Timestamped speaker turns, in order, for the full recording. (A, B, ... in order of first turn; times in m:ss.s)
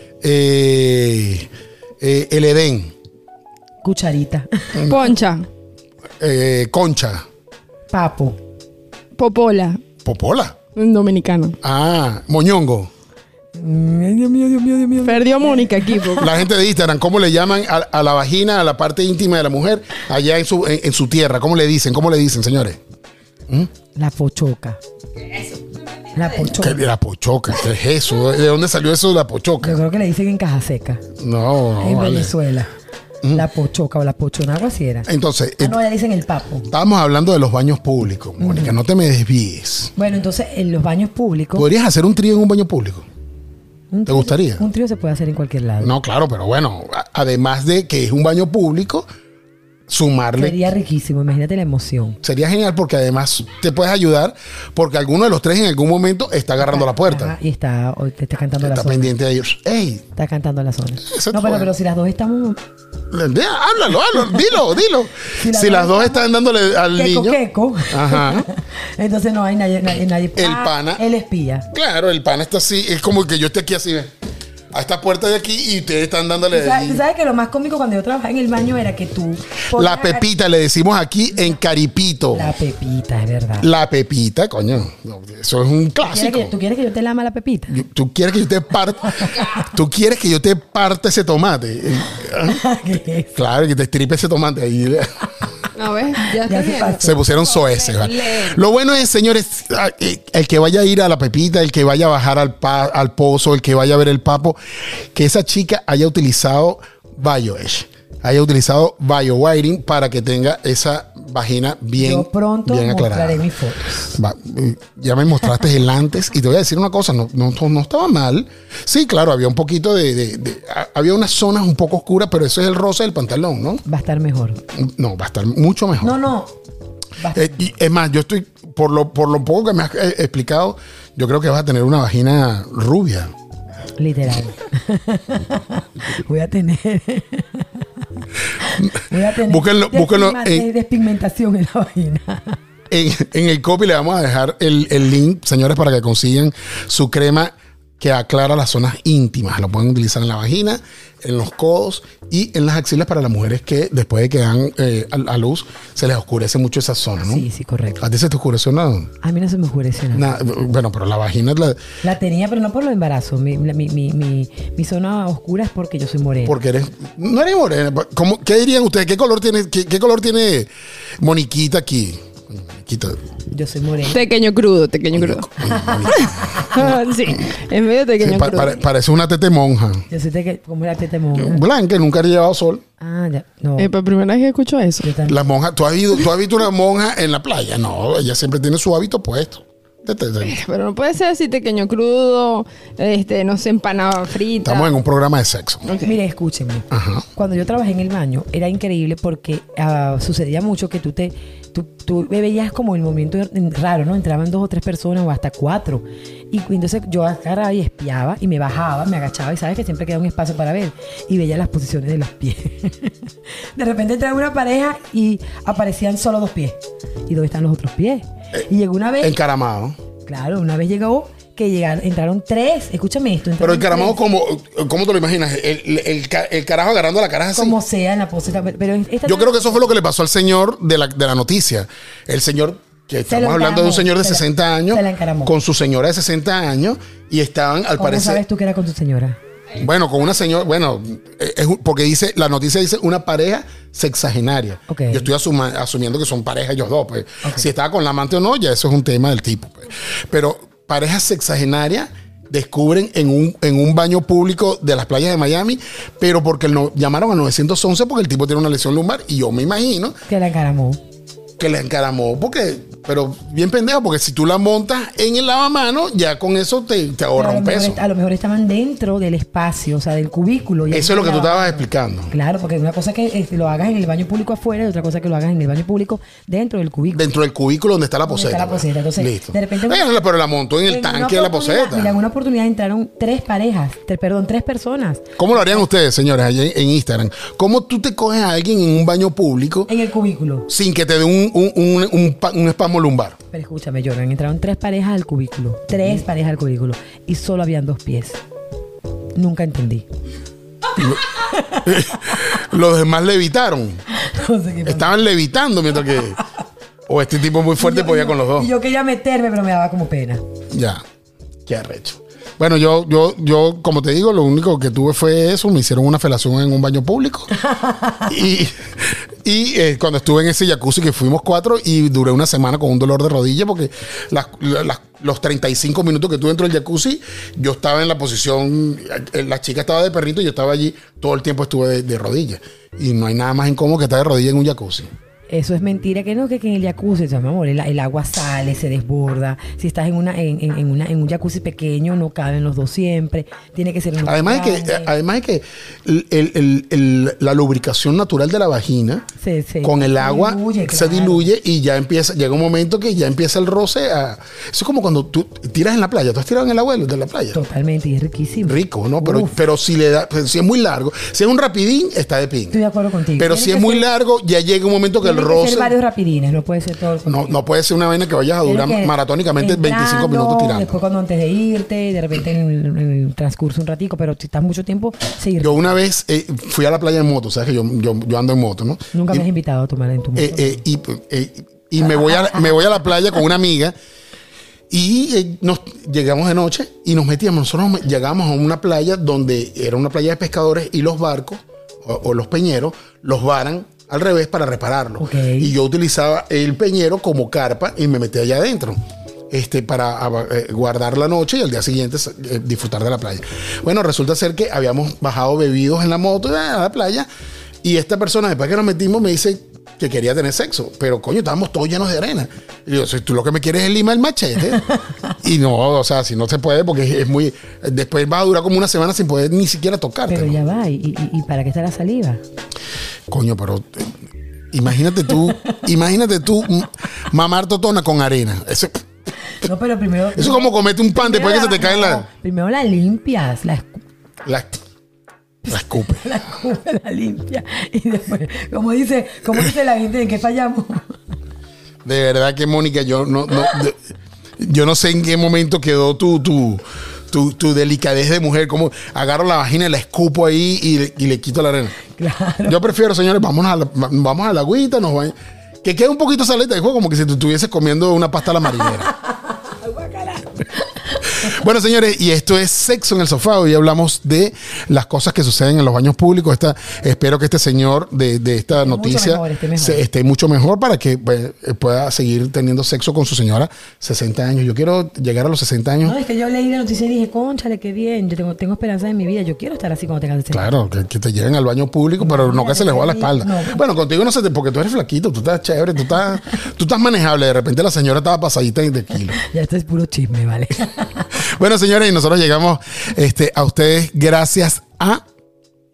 0:00.2-0:01.5 A
0:02.0-0:02.9 A
0:03.8-0:04.8 B
0:04.8-0:05.1 A
0:04.9-0:05.5 C
0:06.2-0:07.2 A
0:07.9-0:08.4 B
0:09.2-0:09.8 C
0:10.0-0:10.6 A
0:10.8-0:11.6 C
0:11.6-0:12.9 A
0:13.6-0:16.2 B
0:15.0-0:16.4 C
0:16.2-0:22.8 A
0:24.0-0:24.8 B
0:26.1-0:26.9 B
0:26.4-0:29.8 A
0:29.6-0:31.0 B
0:31.2-0:32.3 A
0:31.8-0:32.7 B
0:33.3-0:35.1 B
0:35.1-0:35.8 A
0:35.6-0:36.7 B
0:36.7-0:39.9 A
0:38.4-0:38.8 B
0:40.0-0:41.7 B
0:41.6-0:43.1 A
0:43.9-0:45.9 B
0:44.1-0:44.6 A
0:45.8-0:49.1 A
0:49.9-0:50.6 A
0:50.4-0:52.2 B
0:52.2-0:57.4 A
0:56.6-0:59.1 B
0:58.6-1:00.0 A
1:00.2-1:02.6 B
1:01.1-1:01.7 A
1:03.1-1:07.4 A
1:05.3-1:06.2 B
1:06.9-1:11.7 B
1:07.9-1:08.5 A
1:10.4-1:11.0 A
1:11.7-1:14.1 A
1:14.7-1:17.0 A
1:16.5-1:20.3 B
1:19.7-1:22.5 A
1:22.3-1:23.7 B
1:23.6-1:26.5 A
1:26.0-1:27.8 B
1:27.7-1:32.6 A
1:32.5-1:33.4 B
1:33.4-1:35.1 A
1:35.8-1:38.6 C
1:36.4-1:37.2 B
1:37.0-1:44.6 A
1:45.2-1:53.4 A
1:52.0-1:54.2 B
1:54.1-2:03.8 A
2:03.9-2:04.6 B
2:04.7-2:06.2 A
2:06.0-2:06.5 B
2:07.2-2:07.7 B
2:07.3-2:13.3 A
2:14.0-2:17.9 B
2:18.6-2:22.6 B
2:19.5-2:20.7 A
2:22.9-2:37.5 A
2:37.2-2:38.0 B
2:38.0-2:39.1 A
2:39.2-2:40.4 B
2:40.1-2:41.8 A
2:42.0-2:46.6 B
2:46.5-2:50.7 A
2:51.2-2:53.2 A
2:53.5-2:54.2 B
2:54.0-2:55.5 C
2:55.2-2:56.6 A
2:56.0-2:58.8 C
2:58.2-3:00.0 A
3:00.1-3:01.6 B
3:01.4-3:02.8 A
3:03.0-3:03.9 B
3:03.8-3:05.1 C
3:05.0-3:05.4 B
3:05.3-3:10.6 A
3:10.4-3:15.0 C
3:14.6-3:15.9 A
3:15.9-3:16.2 C
3:16.0-3:39.4 B
3:16.9-3:17.2 A
3:39.2-3:40.0 A
3:40.3-3:44.2 B
3:43.6-3:47.8 A
3:47.5-3:50.0 B
3:49.2-3:58.4 A
3:53.3-3:55.5 B
3:58.0-3:59.4 B
3:59.8-4:20.2 A
4:04.9-4:05.3 B
4:20.3-4:21.0 B
4:21.6-4:28.0 A
4:27.4-4:37.3 B
4:30.9-4:32.3 A
4:37.1-4:42.2 A
4:38.3-4:40.0 B
4:40.9-4:45.8 B
4:45.4-4:49.9 A
4:49.9-4:50.7 B
4:50.7-4:53.4 A
4:53.5-4:58.4 B
4:59.4-5:00.1 B
5:01.2-5:02.4 B
5:01.8-5:04.0 A
5:04.2-5:05.2 B
5:04.8-5:06.4 A
5:07.1-5:08.7 A
5:07.8-5:10.4 B
5:10.7-5:11.0 A
5:11.7-5:17.5 A
5:17.7-5:18.3 B
5:18.3-5:35.1 A
5:35.5-5:45.1 B
5:44.2-5:49.3 A
5:49.4-5:51.5 B
5:49.8-5:57.6 A
5:57.5-5:59.6 B
5:58.6-6:02.8 A
6:02.7-6:04.1 B
6:03.4-6:06.0 A
6:05.2-6:07.6 B
6:07.3-6:11.0 A
6:08.6-6:16.0 B
6:15.6-6:19.5 A
6:19.1-6:20.8 B
6:20.4-6:24.0 A
6:22.3-6:22.6 B
6:24.9-6:39.0 A
6:35.2-6:35.7 B
6:39.5-6:47.3 A
6:47.8-7:00.6 A
7:00.3-7:02.4 B
7:03.3-7:04.2 A
7:04.7-7:08.9 A
7:09.6-7:14.0 B
7:10.4-7:12.3 A
7:14.4-7:14.8 A
7:15.7-7:21.2 B
7:15.7-7:16.4 A
7:22.0-7:24.0 A
7:24.6-7:32.0 A
7:32.2-7:32.8 B
7:32.7-7:39.1 A
7:39.5-7:40.5 B
7:41.4-7:56.2 A
7:48.7-7:50.0 B
7:56.0-8:00.7 B
8:00.5-8:09.4 A
8:02.2-8:03.8 B
8:09.4-8:11.2 B
8:11.4-8:15.2 A